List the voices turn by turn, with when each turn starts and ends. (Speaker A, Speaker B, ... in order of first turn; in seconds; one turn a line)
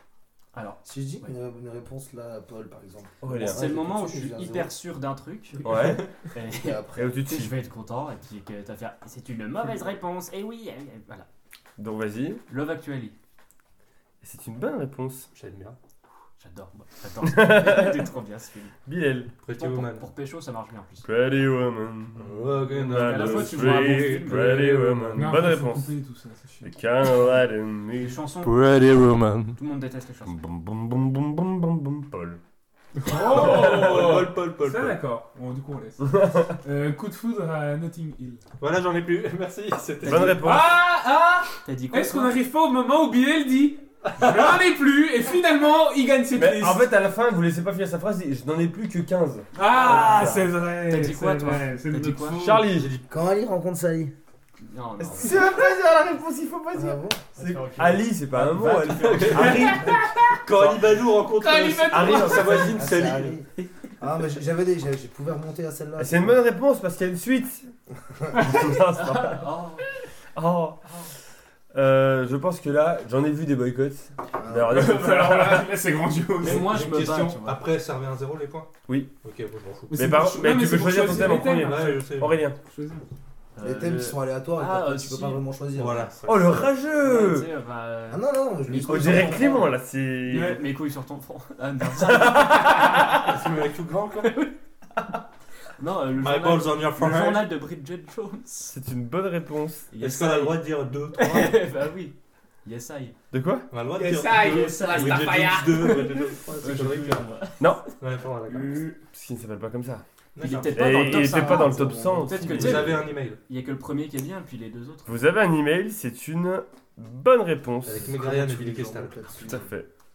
Speaker A: 0.5-1.3
Speaker B: 0.8-4.7
Speaker C: 3.2-3.6
Speaker A: 3.4-11.3
Speaker C: 5.6-6.1
Speaker B: 6.5-7.1
Speaker C: 6.9-7.5
Speaker C: 11.8-12.4
Speaker A: 12.5-13.1
Speaker C: 14.2-15.3
Speaker D: 15.3-15.8
Speaker A: 16.4-18.7
Speaker C: 17.2-18.0
Speaker C: 18.9-19.3
Speaker D: 19.4-20.1
Speaker A: 19.5-21.1
Speaker C: 21.0-25.9
Speaker D: 22.1-25.4
Speaker A: 22.8-24.6
Speaker E: 25.1-26.7
Speaker C: 26.6-28.2
Speaker A: 28.0-28.6
Speaker D: 28.4-29.6
Speaker A: 29.5-30.4
Speaker C: 30.3-32.4
Speaker E: 33.0-38.4
Speaker D: 33.1-35.0
Speaker C: 33.4-33.8
Speaker C: 36.1-36.5
Speaker D: 38.6-40.4
Speaker A: 40.0-40.3
Speaker C: 40.0-40.8
Speaker E: 40.3-46.9
Speaker A: 41.6-42.4
Speaker D: 44.1-44.6
Speaker C: 46.3-50.4
Speaker E: 49.5-52.7
Speaker A: 49.7-52.6
Speaker C: 52.4-52.9
Speaker D: 52.7-53.0
Speaker B: 53.0-54.1
Speaker A: 54.6-55.5
Speaker C: 55.0-60.0
Speaker B: 56.7-57.2
Speaker A: 57.3-59.9
Speaker D: 58.6-63.4
Speaker E: 59.4-60.4
Speaker E: 61.2-62.8
Speaker C: 62.1-62.5
Speaker B: 62.5-66.4
Speaker C: 66.0-67.7
Speaker C: 68.3-69.5
Speaker A: 68.9-69.9
Speaker C: 70.3-70.8
Speaker A: 70.8-71.1
Speaker C: 71.7-75.7
Speaker B: 74.3-75.0
Speaker E: 74.7-76.8
Speaker A: 76.4-77.6
Speaker D: 76.4-78.7
Speaker C: 78.9-79.1
Speaker D: 79.2-80.0
Speaker E: 79.9-83.0
Speaker C: 79.9-82.6
Speaker D: 81.0-82.4
Speaker A: 83.5-85.5
Speaker B: 83.6-86.1
Speaker D: 85.7-86.7
Speaker C: 86.2-87.5
Speaker A: 87.0-93.3
Speaker B: 88.1-89.6
Speaker C: 88.8-90.6
Speaker C: 92.0-93.1
Speaker D: 93.0-94.4
Speaker A: 94.2-94.5
Speaker A: 95.8-98.8
Speaker D: 96.2-97.5
Speaker C: 98.7-99.9
Speaker A: 99.9-103.2
Speaker D: 100.0-101.6
Speaker C: 103.3-103.7
Speaker D: 103.7-107.2
Speaker E: 103.9-106.2
Speaker A: 104.3-107.7
Speaker C: 107.6-107.9
Speaker D: 108.0-108.9
Speaker E: 108.5-109.0
Speaker C: 109.1-110.0
Speaker D: 110.3-111.6
Speaker A: 110.4-115.2
Speaker C: 110.7-113.0
Speaker E: 111.4-112.0
Speaker D: 112.4-113.4
Speaker C: 115.0-118.0
Speaker D: 117.8-119.2
Speaker B: 117.9-119.7
Speaker C: 119.4-119.9